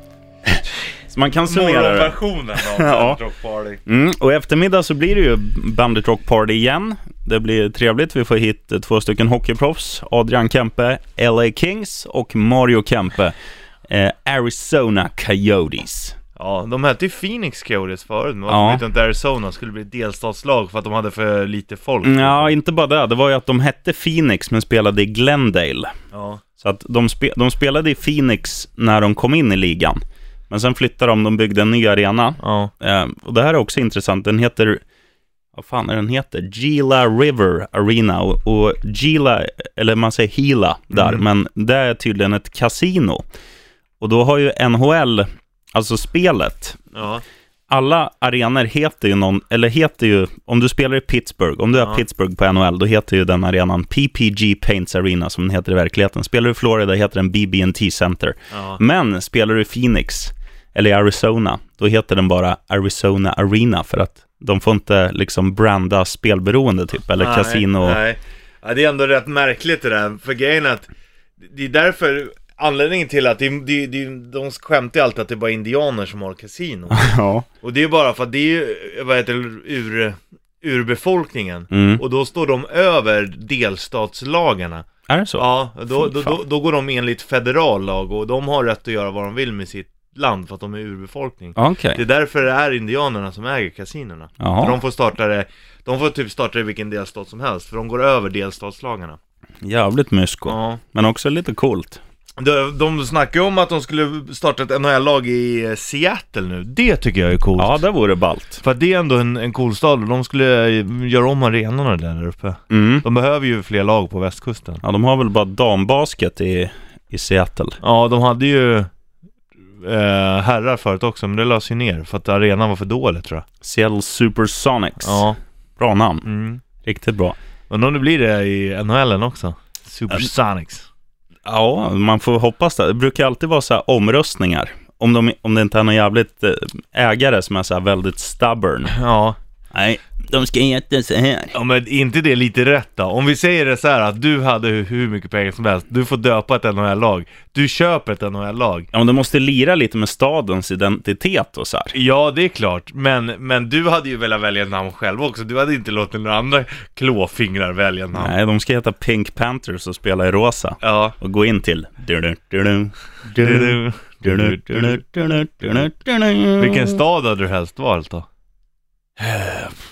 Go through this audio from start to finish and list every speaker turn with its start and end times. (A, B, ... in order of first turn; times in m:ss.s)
0:00.4-0:03.2 A
0:01.4-0:03.8 B
0:03.8-0:13.3 A
0:13.9-0:16.2 A
0:16.4-0:22.5 B
0:18.5-0:18.8 A
0:22.0-0:25.9 A
0:26.1-0:26.4 B
0:26.6-0:34.8 A
0:32.4-0:32.7 B
0:35.5-0:43.2 A
0:40.9-0:41.2 B
0:44.0-0:46.8 A
0:46.9-0:47.2 B
0:47.7-1:08.0 A
0:51.8-0:52.0 B
0:58.5-0:58.8 B
1:07.2-1:10.9 B
1:11.4-1:39.2 B
1:16.9-1:17.4 A
1:21.7-1:22.0 A
1:25.1-1:26.4 A
1:31.6-1:32.0 A
1:34.4-1:34.8 A
1:39.6-1:42.0 A
1:40.4-1:40.8 B
1:42.4-1:47.8 B
1:47.6-1:48.6 A
1:48.6-1:54.8 B
1:52.7-1:53.0 A
1:54.8-1:57.8 A
1:57.8-1:58.9 B
1:59.8-2:03.4 B
2:03.6-2:06.3 A
2:05.0-2:05.4 B
2:06.2-2:06.6 B
2:06.8-2:07.4 A
2:07.7-2:10.9 B
2:11.4-2:18.9 A
2:18.9-2:19.4 B
2:19.7-2:21.5 A
2:21.5-2:28.9 B
2:28.9-2:31.9 A
2:31.9-2:38.3 B
2:38.1-2:47.0 A
2:40.8-2:41.2 B
2:43.4-2:45.0 B
2:46.6-2:48.3 B
2:49.2-2:49.7 A